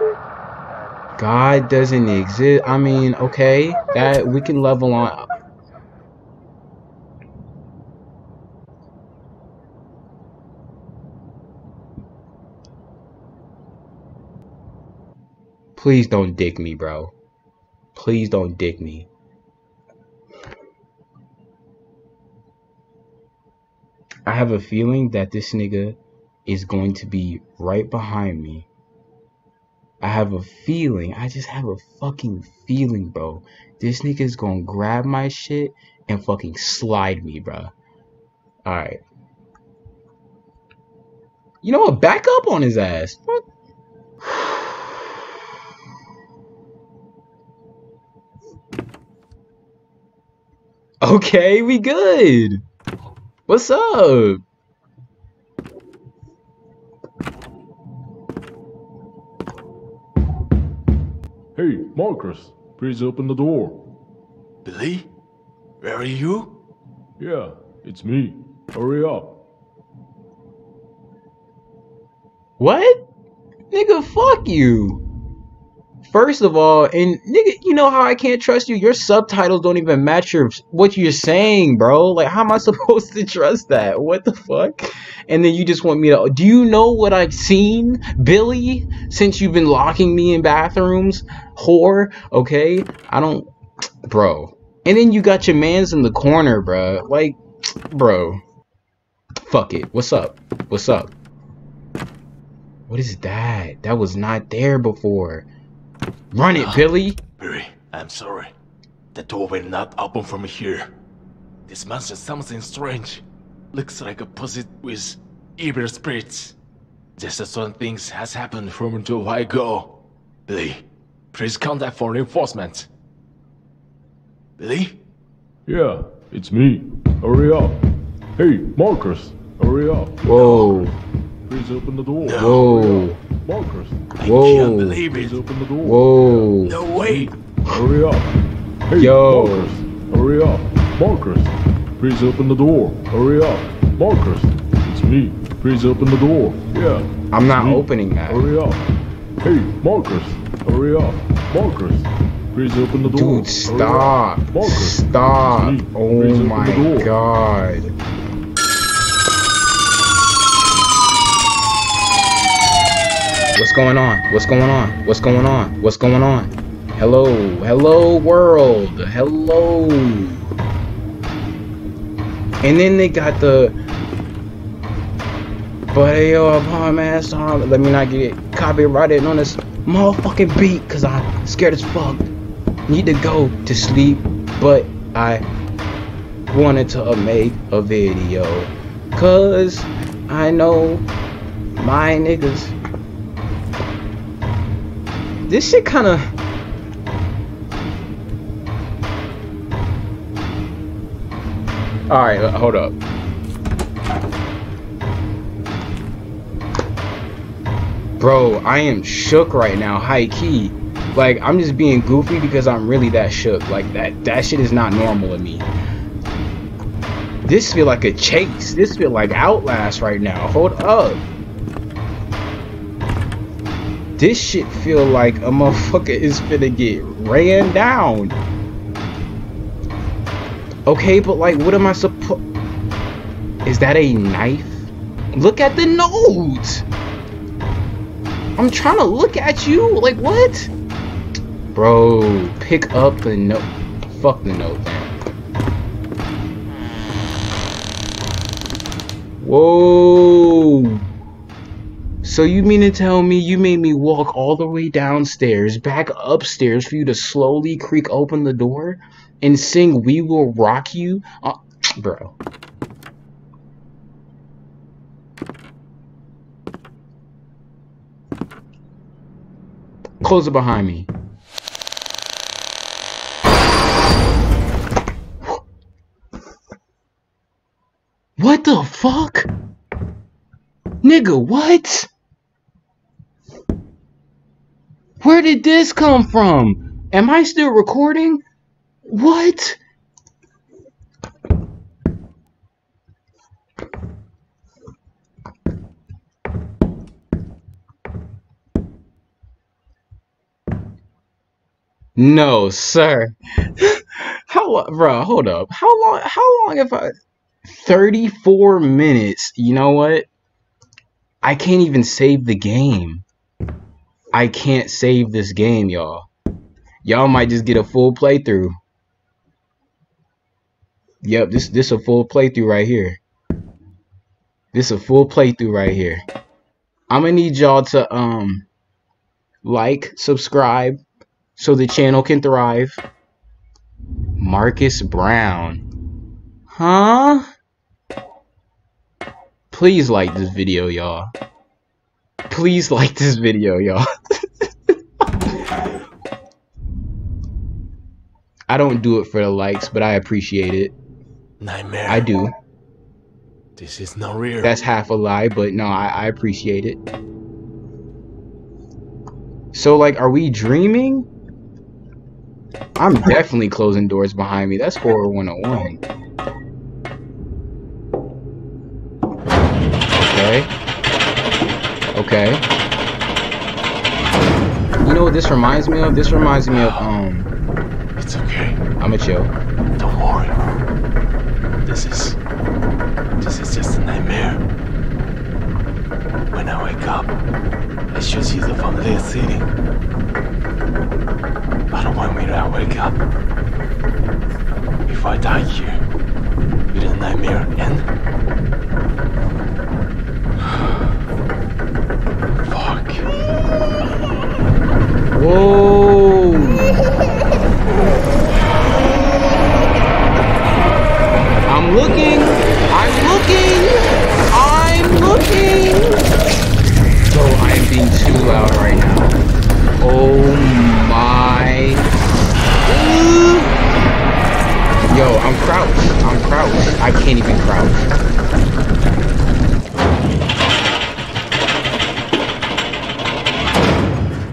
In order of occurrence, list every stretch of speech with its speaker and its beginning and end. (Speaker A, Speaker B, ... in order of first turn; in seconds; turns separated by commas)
Speaker A: 1.2-5.2, Speaker A: 15.8-17.1, Speaker A: 17.9-19.1, Speaker A: 24.3-28.7, Speaker A: 30.0-37.7, Speaker A: 38.6-39.0, Speaker A: 41.6-43.4, Speaker A: 44.2-45.0, Speaker A: 51.0-52.6, Speaker A: 53.5-54.4, Speaker B: 61.5-63.8, Speaker C: 64.6-65.1, Speaker C: 65.8-66.6, Speaker B: 67.2-69.3, Speaker A: 72.6-73.0, Speaker A: 73.7-75.0, Speaker A: 76.0-93.5, Speaker A: 94.0-98.4, Speaker A: 99.4-101.1, Speaker A: 102.9-105.5, Speaker A: 106.3-107.2, Speaker C: 106.5-108.5, Speaker C: 109.1-110.9, Speaker C: 111.7-116.5, Speaker C: 117.2-122.9, Speaker C: 124.6-125.0, Speaker B: 125.7-127.8, Speaker B: 128.4-130.9, Speaker A: 130.2-130.9, Speaker C: 130.3-130.7, Speaker B: 131.4-134.1, Speaker C: 132.2-132.7, Speaker A: 132.3-133.2, Speaker C: 134.2-135.4, Speaker A: 134.2-135.0, Speaker B: 135.1-138.3, Speaker A: 135.8-136.8, Speaker C: 136.6-137.3, Speaker B: 138.9-148.8, Speaker A: 138.9-139.7, Speaker A: 147.3-148.4, Speaker B: 149.4-157.1, Speaker A: 153.0-157.9, Speaker A: 163.5-170.5, Speaker A: 172.6-173.7, Speaker A: 175.9-182.3, Speaker A: 182.9-185.4, Speaker A: 186.5-191.1, Speaker A: 191.8-192.7, Speaker A: 195.5-196.3, Speaker A: 202.1-202.9, Speaker A: 208.2-215.7, Speaker A: 217.4-221.2, Speaker A: 224.2-228.4, Speaker A: 230.9-232.4, Speaker A: 233.6-236.8, Speaker A: 238.6-240.7, Speaker A: 241.7-245.2, Speaker A: 249.4-251.0, Speaker A: 252.2-262.3, Speaker A: 270.2-271.1, Speaker A: 278.4-279.5, Speaker A: 281.0-282.1, Speaker A: 285.2-288.4, Speaker A: 289.0-289.8, Speaker A: 302.2-307.1, Speaker A: 307.6-310.3, Speaker A: 311.4-313.2, Speaker A: 314.3-316.3, Speaker A: 317.0-318.7, Speaker A: 321.2-323.2, Speaker A: 324.7-326.2, Speaker A: 327.1-328.7, Speaker A: 329.6-331.0, Speaker A: 331.6-333.0, Speaker A: 334.4-335.8, Speaker A: 336.7-337.5, Speaker A: 339.7-341.3, Speaker A: 342.5-344.1, Speaker A: 348.7-350.9, Speaker C: 351.6-352.3, Speaker A: 352.1-352.5, Speaker C: 353.8-354.8, Speaker A: 354.6-357.0, Speaker A: 359.7-361.3, Speaker A: 363.0-366.0, Speaker A: 370.1-370.7, Speaker A: 372.1-372.6, Speaker A: 375.0-377.5, Speaker C: 376.7-377.1, Speaker C: 378.2-378.8, Speaker A: 379.0-379.5, Speaker C: 380.0-380.6, Speaker C: 381.8-382.4, Speaker C: 383.4-384.6, Speaker C: 386.5-387.3, Speaker C: 388.1-389.7, Speaker C: 391.9-393.2, Speaker C: 395.1-396.0, Speaker C: 396.9-398.1, Speaker C: 402.6-403.3, Speaker A: 405.3-407.0, Speaker A: 411.7-416.2, Speaker A: 417.3-419.4, Speaker A: 420.0-422.1, Speaker A: 422.8-423.8, Speaker A: 425.1-428.1